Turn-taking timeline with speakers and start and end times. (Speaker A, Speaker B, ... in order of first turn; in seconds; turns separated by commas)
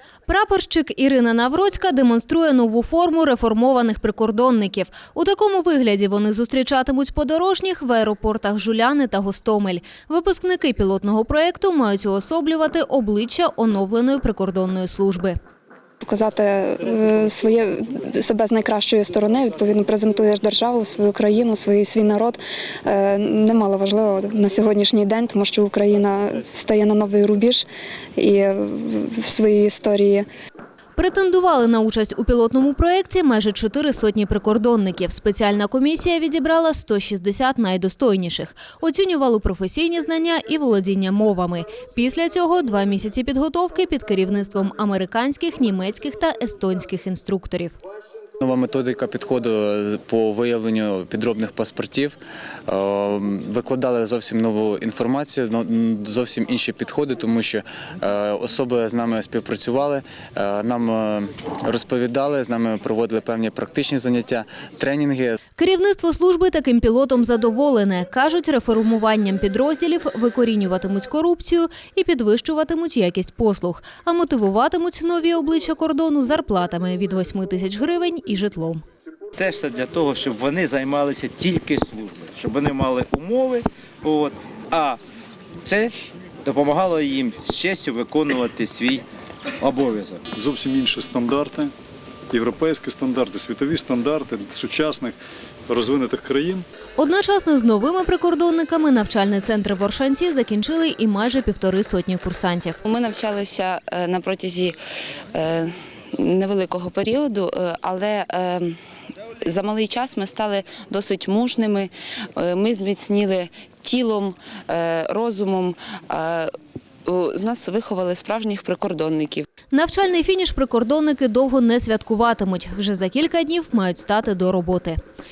Speaker A: 0.3-15.4, Speaker B: 16.0-27.6, Speaker B: 28.1-30.2, Speaker A: 30.9-47.7, Speaker C: 48.4-65.4, Speaker A: 65.6-78.8, Speaker D: 79.4-85.0, Speaker D: 85.6-89.0, Speaker D: 89.6-90.2, Speaker E: 90.3-91.7, Speaker E: 92.3-95.2, Speaker E: 95.7-96.6, Speaker A: 97.0-102.8, Speaker F: 102.8-104.8, Speaker F: 105.3-108.8, Speaker F: 109.4-116.5, Speaker F: 117.0-119.4, Speaker A: 119.7-125.0